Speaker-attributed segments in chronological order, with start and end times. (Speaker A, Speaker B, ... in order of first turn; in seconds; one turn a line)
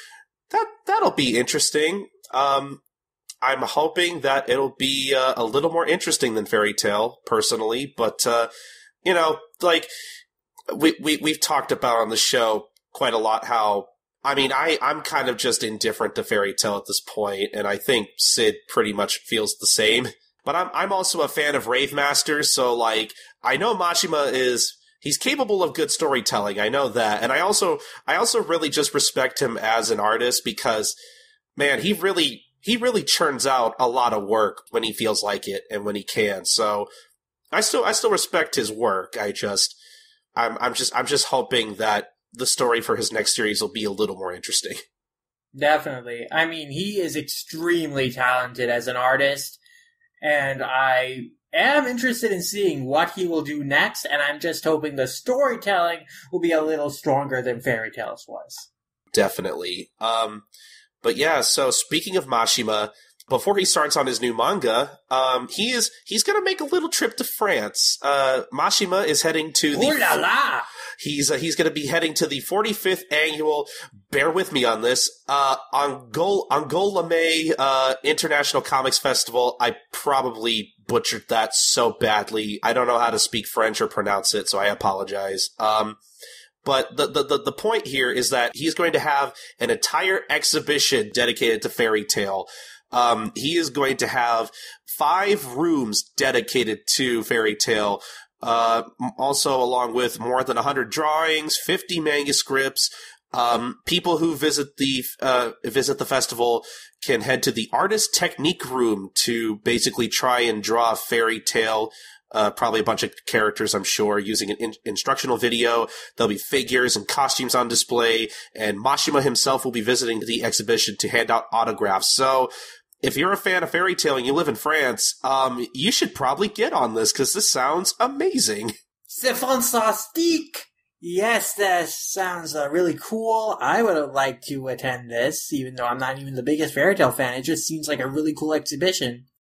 Speaker A: 0.5-2.8
Speaker A: 3.4-8.5
Speaker A: 9.0-9.9
Speaker A: 10.7-31.0
Speaker A: 31.6-36.9
Speaker A: 37.5-39.8
Speaker A: 40.4-44.8
Speaker B: 45.5-49.6
Speaker B: 50.2-58.7
Speaker A: 59.1-60.4
Speaker A: 61.0-70.2
Speaker B: 69.7-70.7
Speaker A: 71.0-86.0
Speaker A: 86.6-122.5
Speaker A: 123.0-128.7
Speaker B: 129.1-139.3